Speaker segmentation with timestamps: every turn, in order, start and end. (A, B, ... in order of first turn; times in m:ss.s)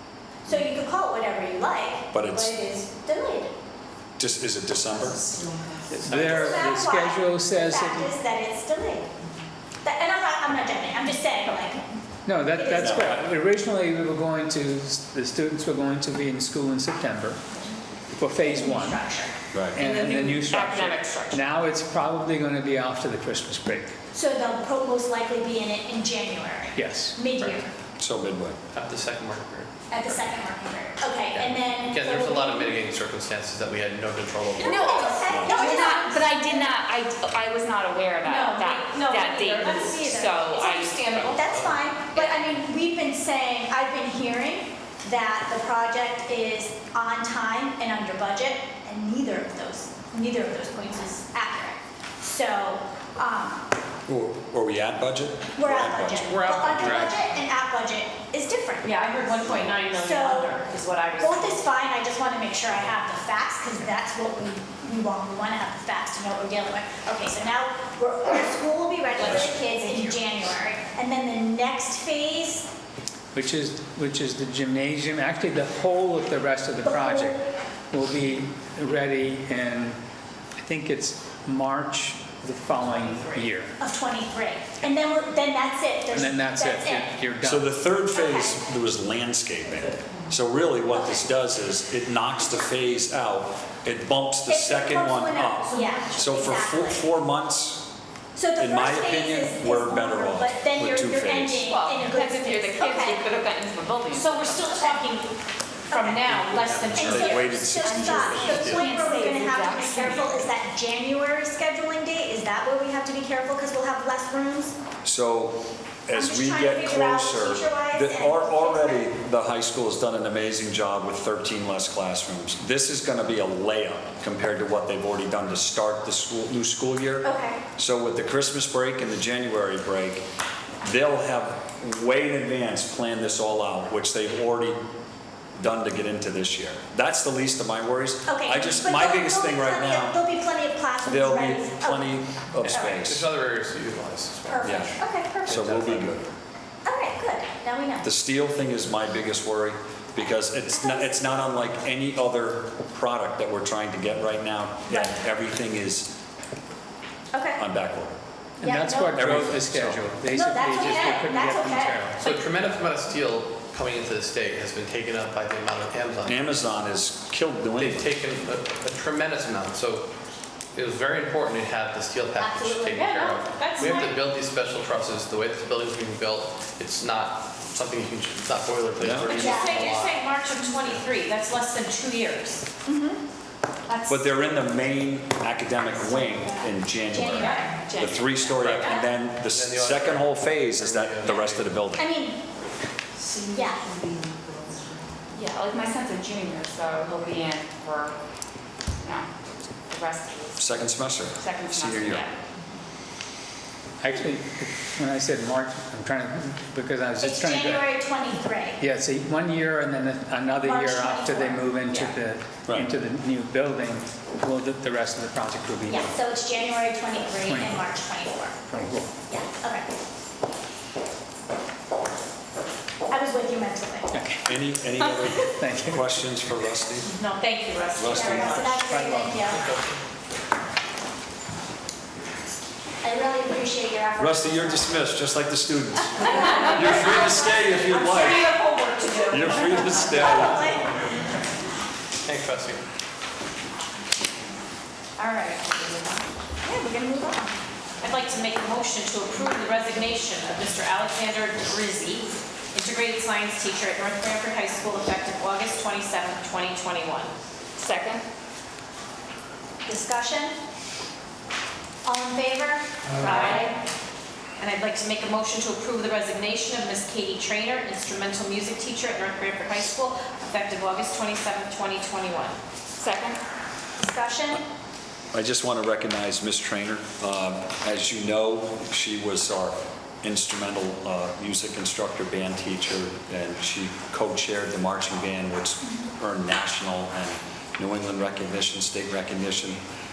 0:00.4-0:03.5 A
0:02.1-0:02.5 B
0:04.2-0:05.3 B
0:05.9-0:08.1 C
0:06.1-0:09.1 A
0:09.8-0:11.8 A
0:12.2-0:17.4 C
0:12.5-0:13.0 A
0:12.8-0:13.3 B
0:18.2-0:19.0 C
0:18.4-0:19.3 A
0:19.5-0:19.8 B
0:19.7-0:23.9 C
0:19.8-0:20.2 D
0:20.1-0:21.4 E
0:24.1-0:27.7 A
0:26.7-0:27.2 C
0:28.0-0:28.6 B
0:28.7-0:29.7 F
0:29.9-0:32.8 A
0:31.3-0:35.1 F
0:34.6-0:36.8 A
0:34.6-0:41.3 E
0:35.3-0:35.5 B
0:38.2-0:39.0 A
0:38.3-0:41.4 D
0:39.6-0:40.3 A
0:41.1-0:41.8 F
0:41.3-0:53.6 A
0:54.1-0:57.2 B
0:55.6-0:59.4 A
0:56.3-0:57.2 F
0:58.8-1:01.6 D
0:59.9-1:00.5 A
1:01.2-1:12.7 A
1:09.2-1:10.1 D
1:13.3-1:20.0 C
1:16.8-1:17.4 A
1:20.6-1:23.8 C
1:22.8-1:23.4 D
1:23.8-1:27.1 A
1:26.1-1:27.8 C
1:27.4-1:37.9 B
1:28.1-1:28.6 A
1:34.4-1:37.0 A
1:38.3-1:43.2 A
1:38.6-1:41.6 B
1:41.6-1:44.7 E
1:44.1-1:45.3 D
1:44.8-1:45.1 A
1:45.9-1:46.3 A
1:45.9-1:47.6 D
1:46.3-1:47.4 F
1:46.9-1:54.7 A
1:46.9-1:48.5 B
1:47.7-1:50.4 E
1:48.1-1:48.9 F
1:55.0-2:07.2 B
1:56.1-1:59.0 A
2:07.2-2:07.6 A
2:07.8-2:10.2 B
2:10.8-2:14.8 B
2:15.6-2:20.2 B
2:18.3-2:22.1 A
2:21.0-2:23.2 B
2:22.6-2:24.9 F
2:22.7-2:23.1 A
2:24.5-2:25.8 A
2:24.6-2:26.3 B
2:25.5-2:26.1 F
2:26.8-2:28.0 A
2:28.0-2:36.1 B
2:30.7-2:31.4 A
2:34.9-2:35.1 A
2:37.3-2:37.6 A
2:37.6-2:38.1 B
2:38.6-2:39.4 A
2:38.6-2:42.2 C
2:39.1-2:40.0 B
2:40.3-2:42.3 A
2:42.2-2:46.6 F
2:46.2-2:48.1 B
2:47.8-2:50.1 F
2:50.7-3:00.2 F
2:52.4-2:53.0 A
2:52.9-2:54.2 D
2:59.0-2:59.4 B
2:59.3-2:59.8 A
2:59.3-3:02.6 D
3:02.8-3:03.2 A
3:03.9-3:04.2 D
3:04.1-3:12.1 B
3:06.0-3:07.8 A
3:07.2-3:07.8 D
3:07.7-3:08.7 E
3:08.6-3:11.8 F
3:08.7-3:09.0 D
3:12.0-3:12.4 A
3:13.5-3:13.9 A
3:13.5-3:14.8 E
3:15.3-3:18.2 E
3:19.0-3:19.3 E
3:19.9-3:22.3 E
3:20.6-3:22.2 B
3:24.0-3:27.9 C
3:27.2-3:28.8 A
3:28.8-3:36.1 C
3:30.6-3:31.7 A
3:31.8-3:32.2 E
3:35.9-3:38.6 A
3:37.4-3:37.8 C
3:38.7-3:39.1 C
3:39.3-3:39.8 A
3:43.1-3:44.2 A
3:44.1-3:44.4 C
3:44.4-3:47.1 B
3:45.0-3:45.5 E
3:45.5-3:46.3 C
3:47.1-3:48.8 D
3:48.0-3:48.7 B
3:48.0-3:49.6 A
3:48.7-3:49.4 C
3:49.5-3:50.0 F
3:53.0-3:55.0 A
3:54.2-3:58.5 B
3:56.3-3:57.3 A
3:56.3-4:00.5 D
3:59.3-4:00.7 B
3:59.9-4:01.0 A
4:02.2-4:02.8 F
4:05.2-4:06.0 A
4:06.6-4:07.5 E
4:08.0-4:17.3 D
4:17.8-4:18.2 E
4:19.8-4:20.5 A
4:22.0-4:23.7 A
4:23.2-4:23.7 D
4:24.6-4:32.6 D
4:33.0-4:33.4 E
4:34.0-4:34.6 A
4:35.3-4:49.8 B